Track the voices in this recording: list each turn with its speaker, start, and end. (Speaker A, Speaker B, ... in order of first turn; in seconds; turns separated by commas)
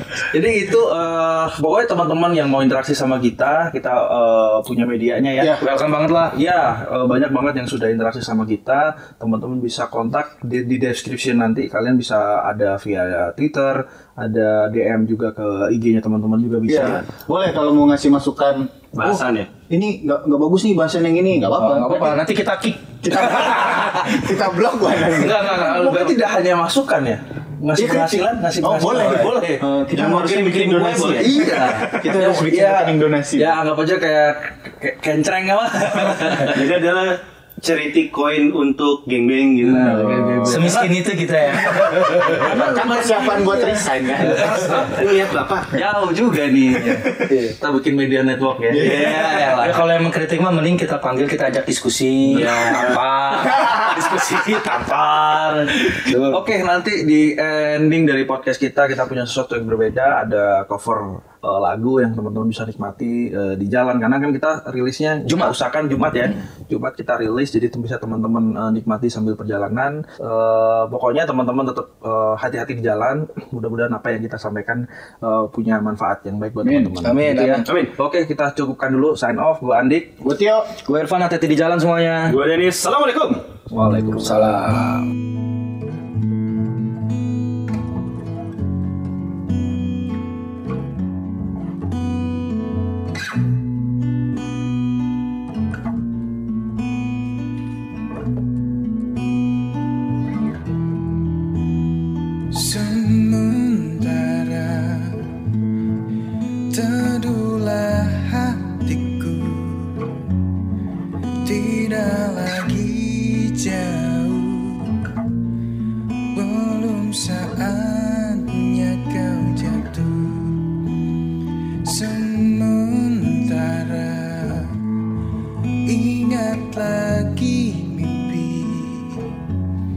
Speaker A: 0.3-5.6, Speaker B: 5.6-6.3, Speaker A: 6.3-17.0, Speaker C: 16.7-22.2, Speaker D: 18.9-19.5, Speaker B: 21.5-24.1, Speaker C: 23.0-25.6, Speaker B: 25.1-26.1, Speaker A: 25.4-29.6, Speaker C: 27.8-33.6, Speaker B: 29.0-29.3, Speaker D: 29.9-31.4, Speaker A: 31.0-36.6, Speaker D: 36.4-40.3, Speaker A: 39.6-40.9, Speaker C: 39.8-40.6, Speaker B: 40.5-43.5, Speaker A: 41.6-43.6, Speaker C: 42.1-44.8, Speaker A: 44.2-45.0, Speaker B: 44.2-44.9, Speaker D: 44.8-45.7, Speaker A: 45.7-49.8, Speaker B: 47.2-47.5, Speaker C: 48.7-49.1, Speaker B: 48.8-56.4, Speaker A: 52.3-53.0, Speaker A: 55.9-80.2, Speaker B: 65.2-65.5, Speaker C: 76.6-77.0, Speaker B: 77.0-77.7, Speaker D: 77.7-77.9, Speaker C: 80.2-80.7, Speaker B: 80.8-82.4, Speaker D: 82.3-83.4, Speaker A: 83.7-84.3, Speaker B: 84.2-85.0, Speaker E: 102.5-105.3, Speaker E: 106.7-110.2, Speaker E: 111.4-115.1, Speaker E: 116.3-120.8, Speaker E: 121.8-124.8, Speaker E: 125.8-129.3